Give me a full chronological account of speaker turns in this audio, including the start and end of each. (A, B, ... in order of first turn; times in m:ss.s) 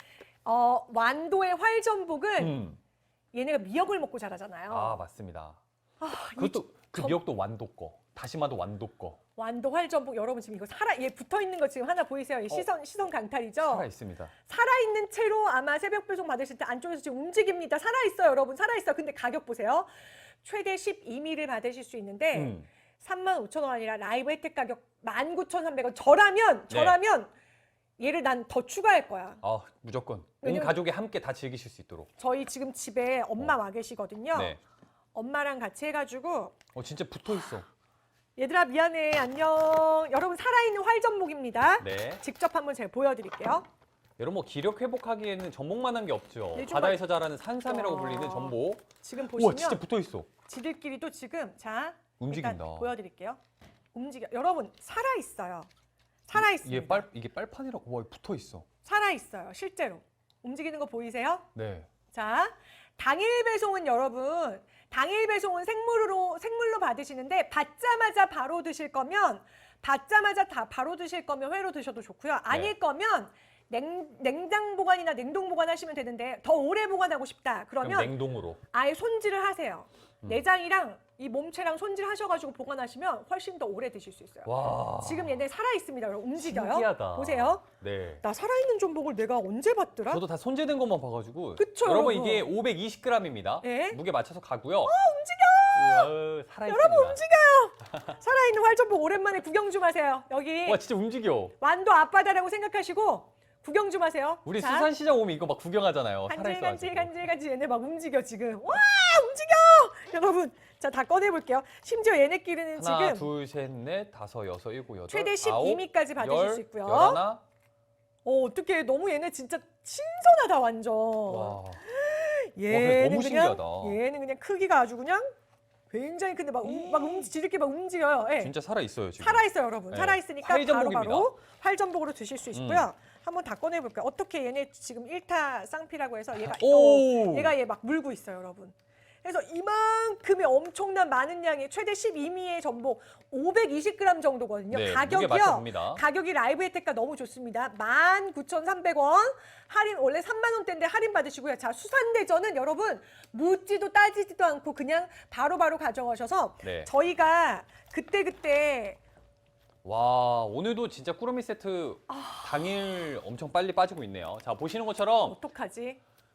0:00.4-0:02.6 A
0:02.4-0:02.8 B
0:03.3-0:05.0 A
0:04.7-0:05.6 B
0:06.0-0:07.2 A
0:06.4-0:09.2 B
0:09.4-0:13.9 A
0:13.6-0:14.3 B
0:14.4-0:27.3 A
0:22.3-0:22.7 B
0:26.7-0:27.0 B
0:28.0-0:29.4 A
0:29.4-0:32.1 B
0:30.4-0:30.8 A
0:32.2-0:34.6 A
0:34.3-0:34.6 B
0:35.1-0:36.6 A
0:36.7-0:37.6 B
0:38.4-0:43.7 A
0:41.8-0:42.2 B
0:44.2-0:50.3 B
0:46.5-0:47.0 A
0:47.6-0:49.8 A
0:50.4-0:53.4 A
0:52.2-0:52.9 B
0:53.9-0:55.7 A
0:56.3-0:57.0 A
0:56.3-0:58.6 B
0:58.8-1:01.5 A
1:01.5-1:01.9 B
1:02.1-1:18.2 A
1:17.8-1:18.6 B
1:18.7-1:27.6 A
1:24.4-1:25.4 B
1:26.4-1:28.2 B
1:28.2-1:30.2 A
1:30.1-1:34.9 B
1:31.6-1:32.5 A
1:33.6-1:34.0 A
1:34.8-1:36.1 A
1:35.7-1:37.2 B
1:36.7-1:40.8 A
1:40.6-1:41.5 B
1:41.6-1:44.9 A
1:44.4-1:47.1 B
1:46.3-1:53.3 A
1:52.8-1:57.4 B
1:55.1-1:57.2 A
1:58.2-2:05.3 A
2:01.3-2:01.8 B
2:02.6-2:04.0 B
2:05.9-2:08.5 A
2:06.6-2:07.3 B
2:08.4-2:11.3 B
2:09.2-2:39.0 A
2:12.5-2:12.9 B
2:16.3-2:17.5 B
2:24.7-2:26.0 B
2:36.6-2:36.9 B
2:39.8-2:45.4 B
2:42.1-2:42.8 A
2:45.2-2:46.0 A